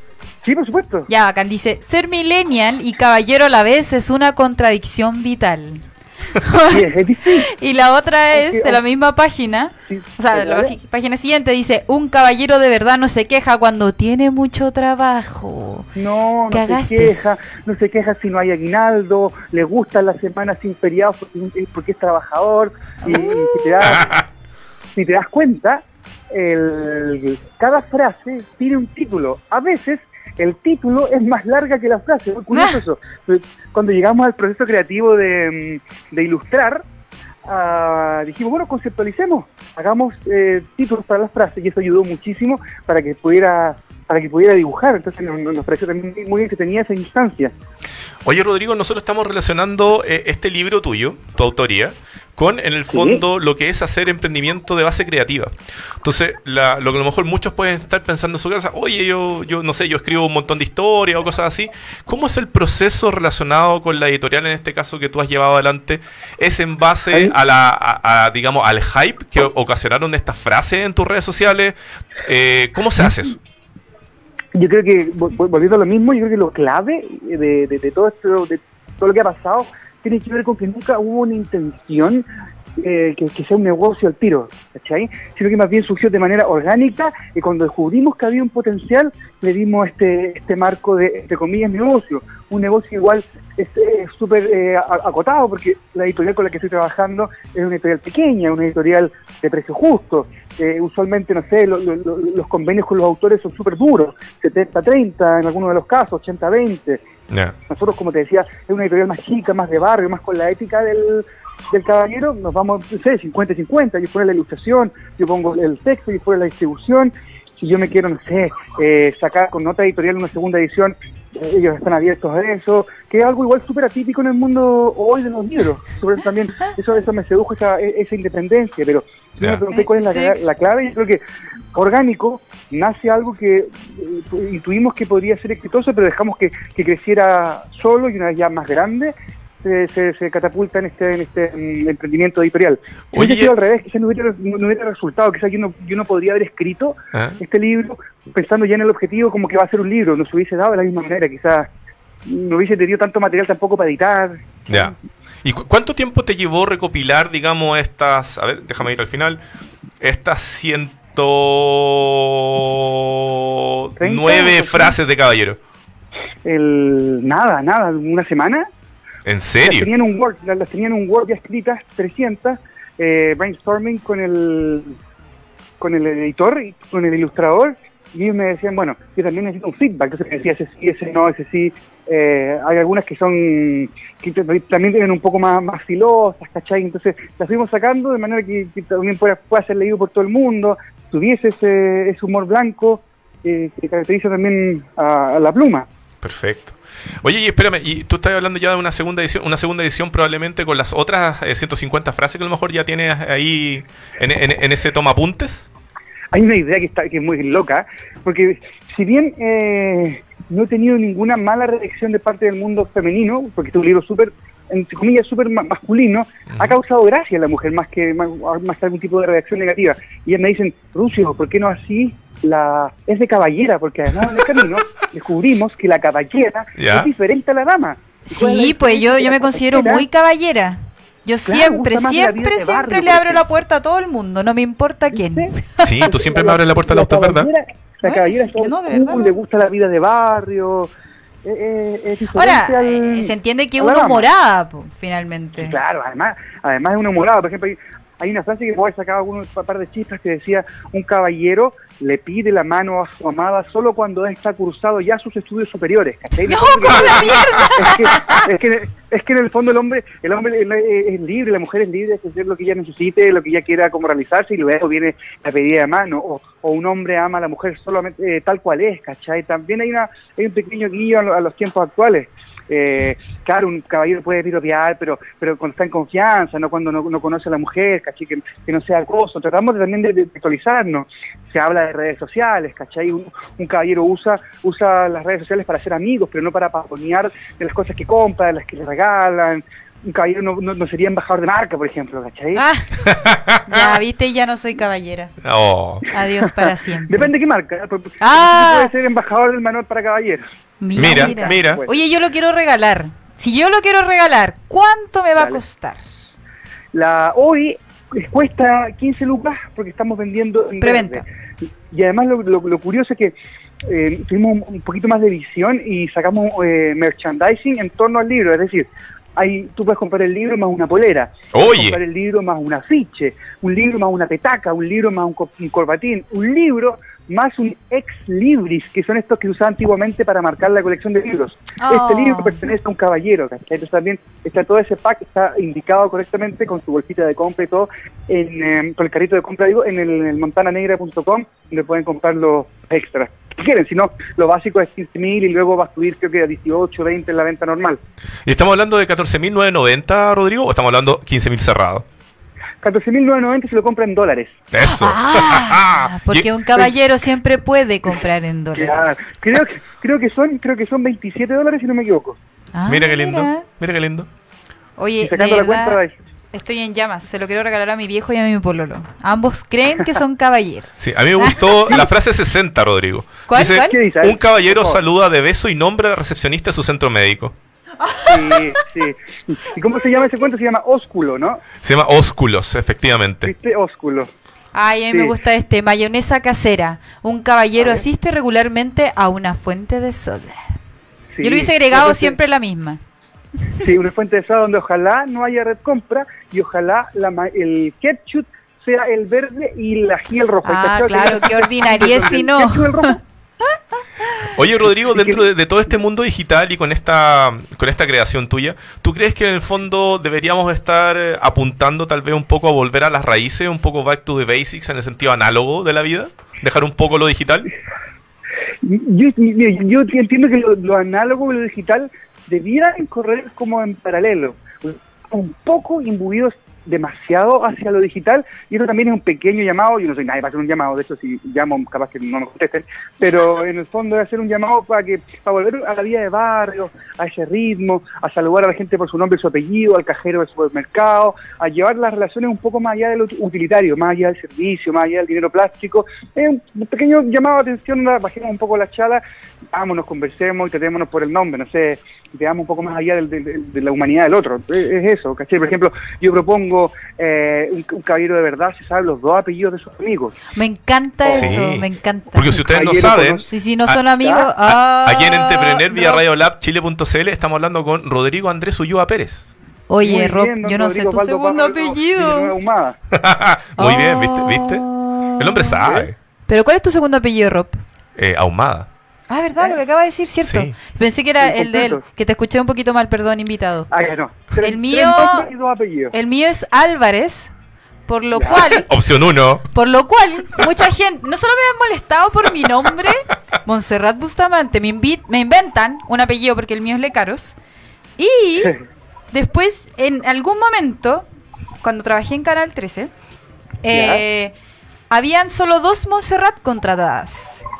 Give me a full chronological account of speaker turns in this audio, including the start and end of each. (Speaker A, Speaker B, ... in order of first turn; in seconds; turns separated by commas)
Speaker A: 0.4-1.1, Speaker B: 1.1-15.9, Speaker A: 6.7-7.5, Speaker A: 8.3-8.8, Speaker A: 9.9-10.7, Speaker A: 15.9-24.1, Speaker B: 16.5-17.4, Speaker B: 23.0-23.9, Speaker C: 23.8-24.2, Speaker A: 24.9-36.8, Speaker B: 32.5-32.8, Speaker A: 37.4-47.5, Speaker C: 48.2-73.4, Speaker A: 52.9-53.2, Speaker A: 74.5-82.2, Speaker A: 82.8-107.0, Speaker C: 107.3-107.5, Speaker A: 107.7-131.2, Speaker B: 129.7-130.4, Speaker A: 131.7-151.7, Speaker C: 143.1-143.5, Speaker C: 147.1-147.4, Speaker A: 152.2-154.9, Speaker C: 154.7-159.4, Speaker C: 160.0-165.6, Speaker A: 164.0-164.9, Speaker A: 166.4-168.7, Speaker C: 169.2-169.9, Speaker A: 169.6-175.0, Speaker A: 175.8-195.9, Speaker C: 196.2-205.7, Speaker A: 206.3-230.0, Speaker C: 216.5-216.7, Speaker C: 224.3-224.6, Speaker C: 226.8-227.1, Speaker B: 228.3-235.9, Speaker A: 231.4-233.4, Speaker A: 235.1-240.9, Speaker C: 235.8-237.5, Speaker B: 238.0-239.4, Speaker A: 241.4-244.3, Speaker B: 242.3-245.8, Speaker A: 245.6-292.6, Speaker B: 256.4-258.4, Speaker C: 257.4-257.7, Speaker B: 292.5-292.9, Speaker C: 293.0-294.0, Speaker B: 293.6-295.3, Speaker C: 295.4-296.1, Speaker B: 296.1-297.3, Speaker A: 296.4-300.4, Speaker B: 298.2-298.9, Speaker B: 300.8-306.1, Speaker A: 300.9-302.0, Speaker C: 300.9-301.8, Speaker A: 306.9-311.2, Speaker B: 310.8-311.2, Speaker A: 311.9-348.0, Speaker C: 321.5-322.0, Speaker B: 331.8-332.6, Speaker C: 348.4-352.1, Speaker A: 352.8-354.6, Speaker C: 354.7-356.5, Speaker B: 354.8-359.2, Speaker A: 358.8-362.4, Speaker B: 362.7-363.6, Speaker C: 362.9-364.3, Speaker B: 365.0-366.0, Speaker A: 365.2-366.1, Speaker B: 366.5-372.0, Speaker C: 371.0-377.6, Speaker B: 373.5-374.0, Speaker A: 373.7-375.0, Speaker B: 378.0-378.7, Speaker A: 378.2-381.6, Speaker C: 381.8-383.5, Speaker A: 383.4-384.3, Speaker B: 384.7-390.6, Speaker A: 387.8-388.0, Speaker A: 391.3-392.4, Speaker B: 391.4-393.0, Speaker A: 393.8-403.2, Speaker B: 400.6-404.5, Speaker C: 404.5-417.7, Speaker A: 404.9-405.5, Speaker A: 418.8-460.4, Speaker B: 460.5-462.6, Speaker A: 461.2-461.6, Speaker C: 461.3-464.0, Speaker A: 462.6-463.5, Speaker B: 463.5-466.2, Speaker A: 464.2-464.5, Speaker C: 464.6-469.5, Speaker B: 469.9-472.5, Speaker A: 470.0-473.0, Speaker C: 473.1-474.8, Speaker B: 473.8-475.8, Speaker C: 475.4-476.1, Speaker A: 475.8-476.1, Speaker B: 476.5-477.8, Speaker C: 478.1-478.9, Speaker B: 479.3-483.9, Speaker C: 480.4-480.7, Speaker A: 481.4-482.0, Speaker A: 483.9-486.1, Speaker B: 484.6-485.5, Speaker B: 486.1-487.5, Speaker B: 488.1-488.9, Speaker A: 488.3-488.7, Speaker C: 488.7-489.7, Speaker B: 489.7-497.6, Speaker B: 498.2-498.8, Speaker B: 499.3-501.2, Speaker B: 501.8-503.1, Speaker B: 503.8-504.5, Speaker A: 503.9-504.2, Speaker B: 505.1-507.6